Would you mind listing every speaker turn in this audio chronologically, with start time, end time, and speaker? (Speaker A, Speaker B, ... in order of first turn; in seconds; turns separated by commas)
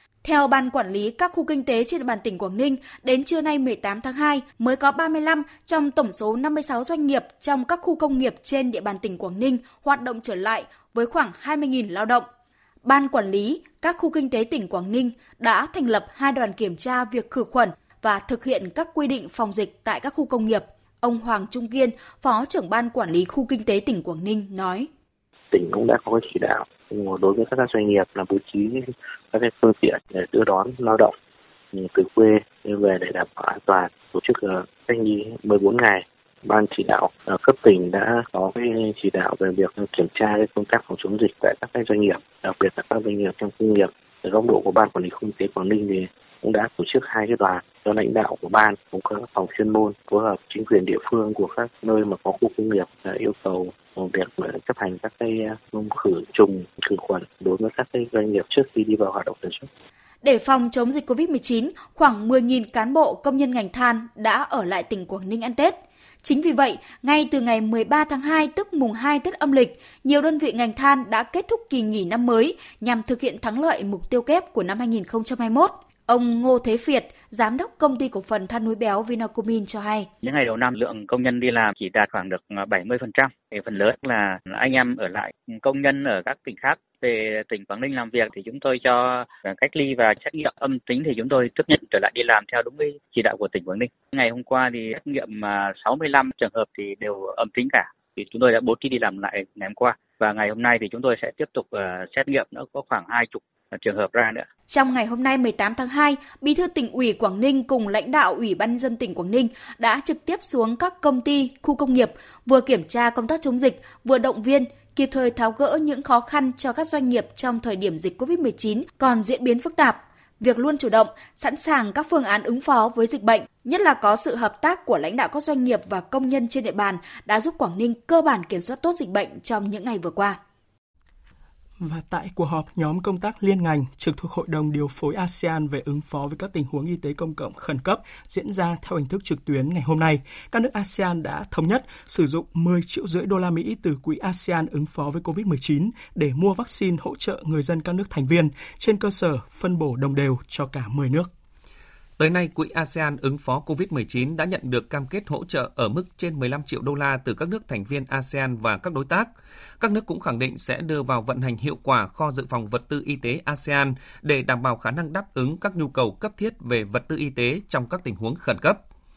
Speaker A: 0.2-12.3, Speaker A: 12.8-24.9, Speaker B: 25.5-31.1, Speaker B: 31.7-59.7, Speaker A: 60.2-80.1, Speaker C: 80.2-104.5, Speaker A: 104.7-130.4, Speaker D: 131.8-151.3, Speaker E: 152.2-168.8